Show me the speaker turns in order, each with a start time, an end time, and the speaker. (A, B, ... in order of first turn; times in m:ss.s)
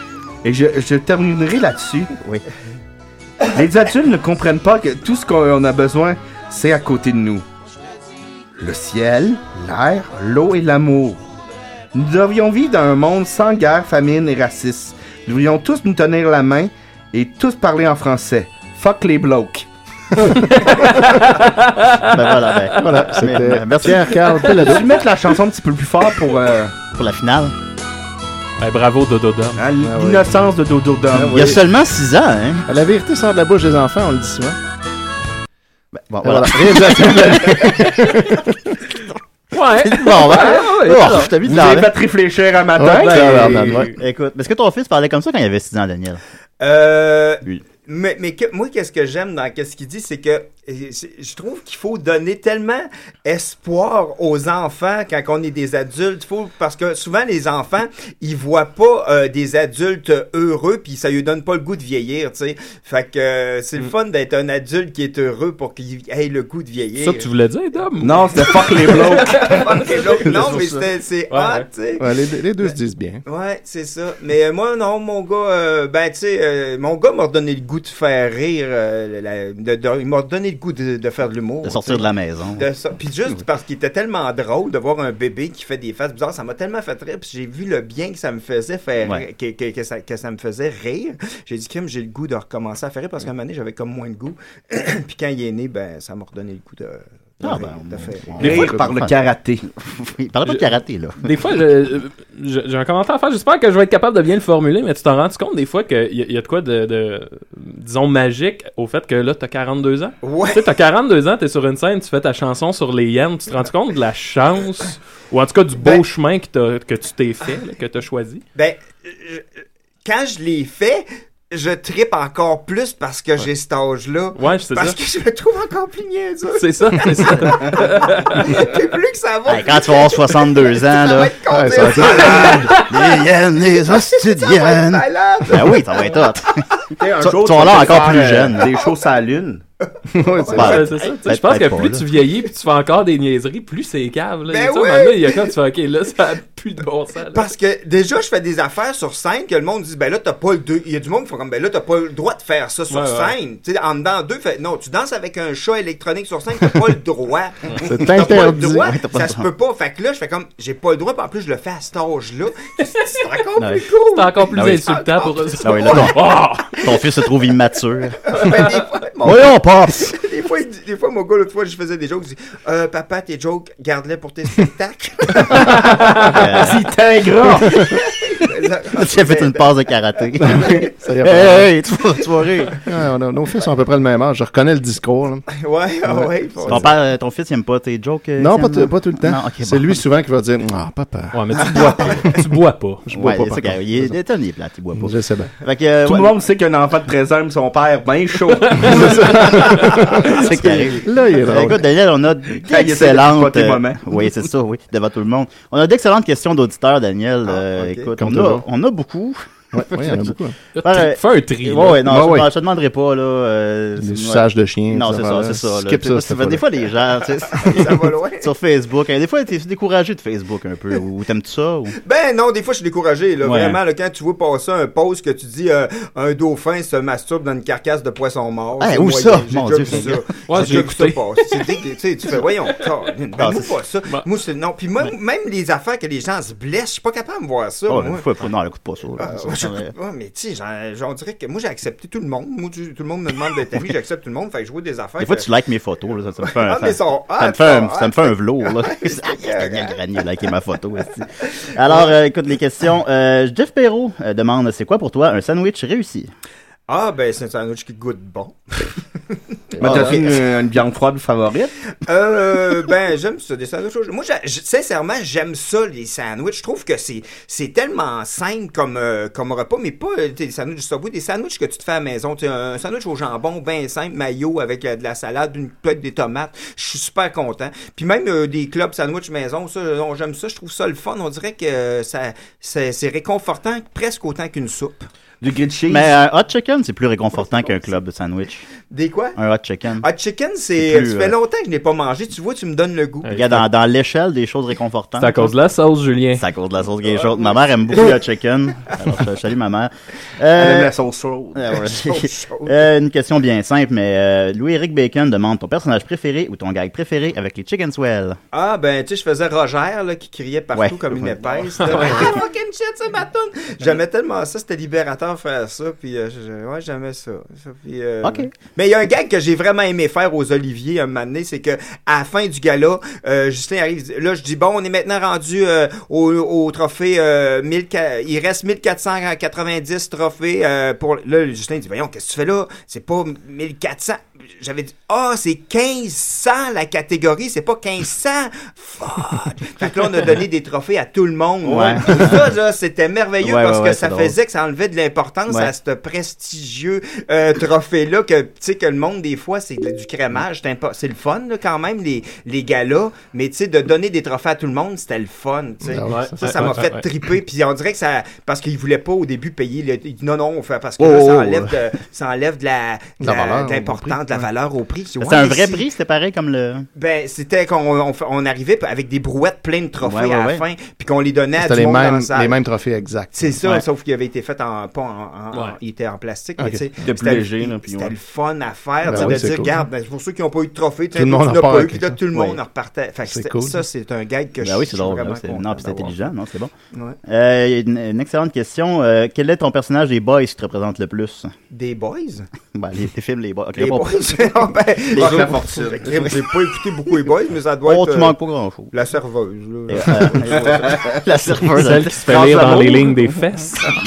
0:00.4-0:02.1 A
0:02.2-0:02.4 B
0:03.5-0:07.4 A
0:08.6-0:11.2 A
0:11.9-0:19.6 A
0:20.3-0:23.2 C
0:22.0-0:24.4 B
0:22.7-0:25.0 D
0:23.9-0:24.8 C
0:24.6-0:26.8 A
0:26.9-0:27.5 B
0:28.6-0:29.6 C
0:29.6-0:31.5 A
0:29.8-0:30.5 D
0:31.1-0:31.6 D
0:31.3-0:32.6 B
0:32.7-0:34.6 D
0:35.9-0:37.9 B
0:36.2-0:38.5 D
0:39.5-0:41.3 C
0:39.8-0:41.9 B
0:41.4-0:43.8 A
0:42.8-0:43.9 D
0:42.9-0:43.9 C
0:43.7-0:46.2 B
0:46.6-1:07.3 E
1:07.0-1:10.6 C
1:08.0-1:09.8 A
1:09.2-1:12.1 E
1:11.3-1:11.6 C
1:12.0-1:13.2 D
1:13.2-1:38.7 E
1:21.6-1:22.6 B
1:37.4-1:39.2 B
1:38.4-1:39.6 A
1:39.8-1:41.2 B
1:40.4-1:58.4 C
1:50.2-1:50.6 E
1:58.5-1:59.5 E
2:00.0-2:12.9 E
2:04.4-2:05.0 C
2:06.6-2:08.7 C
2:09.5-2:11.3 B
2:11.5-2:12.7 D
2:12.0-2:18.7 B
2:13.6-2:16.8 E
2:17.0-2:19.6 A
2:18.4-2:18.9 E
2:20.1-2:20.8 D
2:20.1-2:21.2 E
2:20.5-2:27.5 C
2:20.5-2:22.0 B
2:24.5-2:25.5 E
2:27.3-2:46.7 E
2:32.9-2:33.3 C
2:37.7-2:38.9 D
2:38.1-2:39.5 B
2:43.6-2:43.8 B
2:44.1-2:46.8 C
2:44.5-2:44.9 B
2:45.6-2:48.6 B
2:48.2-2:55.8 E
2:49.2-2:50.1 B
2:55.6-2:56.8 B
2:56.2-2:58.0 A
2:57.7-3:00.9 E
2:58.9-3:02.8 B
3:00.4-3:01.7 D
3:02.8-3:05.5 D
3:05.5-3:06.9 E
3:06.0-3:06.9 D
3:06.6-3:10.0 B
3:08.4-3:12.4 D
3:11.3-3:13.0 C
3:13.0-3:14.2 D
3:13.1-3:16.3 B
3:14.9-3:15.5 D
3:16.0-3:19.5 A
3:18.6-3:20.2 C
3:18.8-3:21.8 D
3:20.2-3:42.0 B
3:22.6-3:24.1 A
3:27.4-3:28.1 E
3:28.2-3:28.6 D
3:29.7-3:30.6 D
3:30.7-3:32.0 C
3:32.0-3:32.5 D
3:34.0-3:36.8 D
3:37.5-3:38.5 E
3:42.0-3:58.3 E
3:43.4-3:43.8 B
3:48.8-3:50.8 B
3:50.5-3:51.8 C
3:53.4-3:53.7 B
3:57.9-3:59.9 B
3:59.2-4:05.5 E
4:05.2-4:16.3 B
4:06.4-4:10.0 E
4:11.8-4:12.1 E
4:16.9-4:19.3 E
4:19.8-4:20.1 D
4:19.8-4:21.7 A
4:19.8-4:20.2 B
4:22.0-4:45.1 E
4:45.4-4:46.1 A
4:45.9-4:48.7 B
4:48.9-4:49.4 E
4:49.4-4:50.0 B
4:50.0-4:53.3 E
4:50.8-4:51.3 B
4:53.2-4:53.6 C
4:53.3-4:55.5 B
4:55.2-4:56.4 C
4:56.4-5:00.9 B
5:00.5-5:01.6 A
5:01.6-5:08.4 B
5:01.7-5:02.9 E
5:08.5-6:05.8 E
5:10.7-5:12.4 B
5:11.8-5:12.3 C
5:18.2-5:18.5 B
5:41.7-5:42.5 B
5:41.8-5:42.4 A
5:43.4-5:44.3 B
5:55.8-5:56.8 D
5:56.1-5:57.0 C
6:01.1-6:01.5 A
6:03.2-6:04.5 D
6:05.2-6:06.9 B
6:06.9-6:12.6 E
6:10.0-6:10.6 B
6:11.6-6:13.6 D
6:13.3-6:26.3 E
6:16.6-6:16.9 D
6:17.0-6:18.2 A
6:19.0-6:19.8 D
6:21.1-6:22.6 D
6:23.2-6:23.8 D
6:24.6-6:26.7 B
6:26.9-6:27.2 E
6:27.2-6:31.5 B
6:31.7-6:32.5 E
6:32.7-6:35.6 B
6:33.8-6:38.4 E
6:35.2-6:36.5 A
6:37.8-6:38.9 B
6:38.9-6:41.0 E
6:39.9-6:42.1 B
6:40.8-6:41.2 A
6:41.6-6:43.9 C
6:42.1-6:43.2 A